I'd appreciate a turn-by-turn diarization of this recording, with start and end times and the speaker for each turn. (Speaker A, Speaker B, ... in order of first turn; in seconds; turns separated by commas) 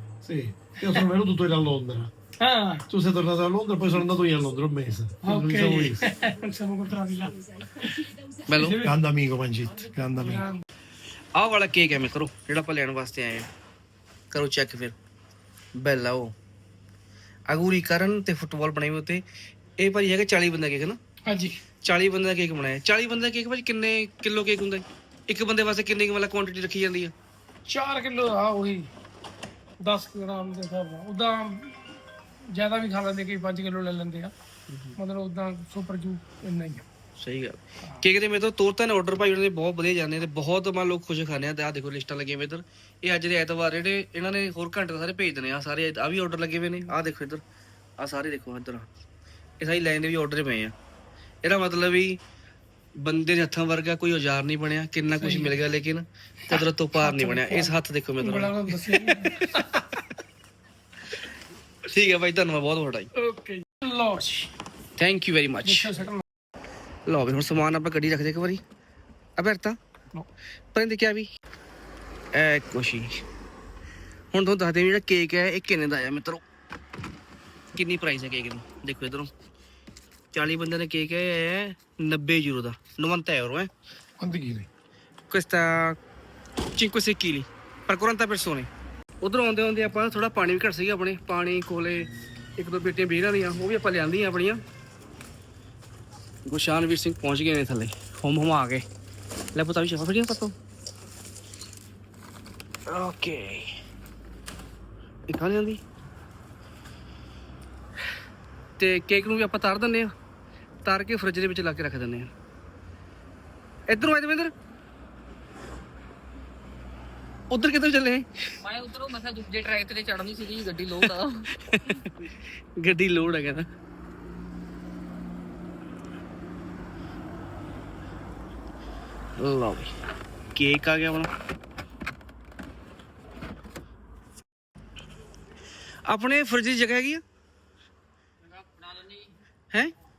Speaker A: 0.2-2.1, Speaker B: 2.4-2.9, Speaker A: 2.9-6.0, Speaker B: 5.2-9.0, Speaker C: 8.5-8.8, Speaker A: 8.8-10.5, Speaker B: 10.2-10.6, Speaker C: 11.3-13.5, Speaker C: 14.3-14.9, Speaker C: 15.8-16.3, Speaker C: 17.5-19.2, Speaker C: 19.8-21.0, Speaker B: 21.3-21.6, Speaker C: 21.8-27.1, Speaker B: 27.7-28.9, Speaker B: 29.8-31.8, Speaker B: 32.5-34.3, Speaker C: 34.7-35.0, Speaker B: 35.0-36.9, Speaker C: 37.2-47.4, Speaker C: 48.0-48.9, Speaker C: 49.6-50.7, Speaker C: 51.4-52.2, Speaker C: 53.0-58.7, Speaker B: 55.2-55.6, Speaker B: 56.5-59.6, Speaker C: 59.3-59.6, Speaker C: 61.9-63.1, Speaker B: 63.2-64.5, Speaker C: 65.0-65.9, Speaker B: 65.6-66.2, Speaker C: 67.1-68.6, Speaker C: 69.4-69.8, Speaker C: 70.7-71.3, Speaker C: 72.3-73.2, Speaker C: 74.3-76.4, Speaker C: 77.8-79.3, Speaker C: 80.3-83.7, Speaker A: 84.2-84.7, Speaker C: 85.3-86.0, Speaker C: 86.8-88.7, Speaker C: 89.2-94.6, Speaker C: 96.5-98.8, Speaker C: 99.5-100.5, Speaker C: 102.9-103.7, Speaker C: 105.3-105.8, Speaker C: 108.8-110.1, Speaker C: 110.8-112.3, Speaker C: 113.9-114.5, Speaker C: 117.5-118.3, Speaker D: 118.6-121.5, Speaker C: 121.6-122.1, Speaker C: 122.8-123.7, Speaker C: 129.4-129.9, Speaker C: 130.6-131.3, Speaker C: 136.1-137.2, Speaker D: 138.4-139.3